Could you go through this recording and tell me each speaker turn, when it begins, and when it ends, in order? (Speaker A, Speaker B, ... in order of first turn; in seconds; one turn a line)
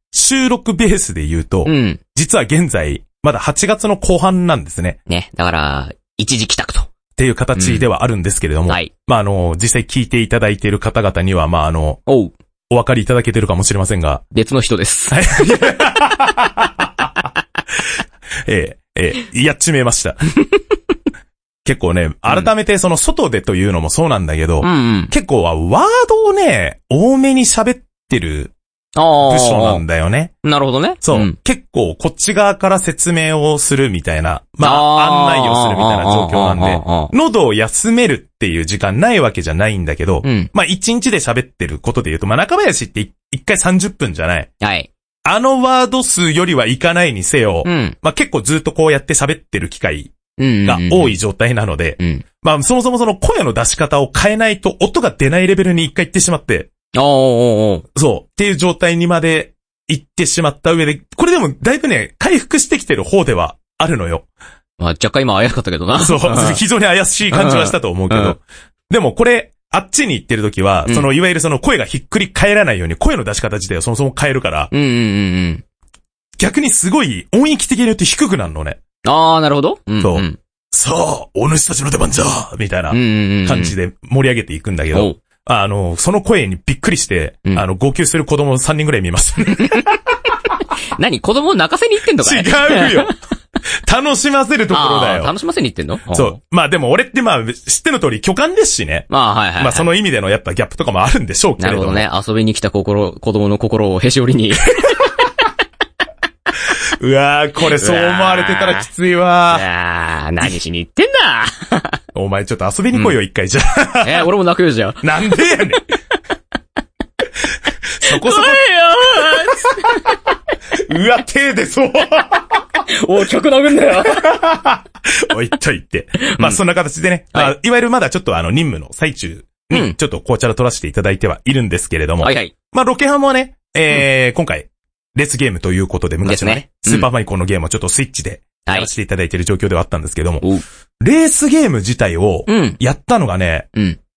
Speaker A: 0.1-5.0
Speaker B: 1.6-2.0
Speaker B: 5.1-6.9
Speaker A: 7.2-12.0
Speaker B: 7.5-7.8
Speaker B: 12.1-12.3
Speaker A: 12.7-14.2
Speaker B: 14.3-15.5
Speaker A: 15.1-17.2
Speaker A: 18.4-20.4
Speaker A: 21.6-28.5
Speaker B: 24.6-25.1
Speaker B: 28.9-29.8
Speaker A: 29.2-30.3
Speaker B: 30.4-31.4
Speaker A: 31.0-44.5
Speaker B: 34.6-37.1
Speaker B: 40.2-40.5
Speaker B: 44.6-44.9
Speaker A: 45.2-50.1
Speaker B: 47.6-48.0
Speaker B: 50.4-51.2
Speaker A: 50.6-56.7
Speaker B: 52.0-52.2
Speaker B: 56.9-57.9
Speaker A: 57.9-64.2
Speaker B: 64.8-66.6
Speaker A: 65.9-74.7
Speaker B: 67.3-68.3
Speaker B: 74.7-75.6
Speaker A: 76.4-78.8
Speaker B: 79.0-80.4
Speaker A: 80.0-90.0
Speaker B: 82.9-83.7
Speaker B: 84.9-85.2
Speaker B: 90.9-93.1
Speaker A: 92.2-93.1
Speaker A: 93.8-95.3
Speaker B: 94.7-96.4
Speaker A: 96.1-102.1
Speaker B: 99.1-99.9
Speaker B: 101.6-105.1
Speaker A: 107.0-109.7
Speaker B: 107.7-108.9
Speaker B: 109.5-112.0
Speaker A: 112.1-114.3
Speaker B: 114.0-116.2
Speaker A: 115.0-115.8
Speaker A: 118.0-119.8
Speaker B: 118.0-120.2
Speaker A: 120.7-122.6
Speaker B: 122.8-124.4
Speaker A: 124.2-140.4
Speaker B: 126.2-126.6
Speaker B: 129.7-130.0
Speaker B: 132.2-132.5
Speaker B: 136.2-137.1
Speaker A: 141.0-143.7
Speaker B: 142.5-142.8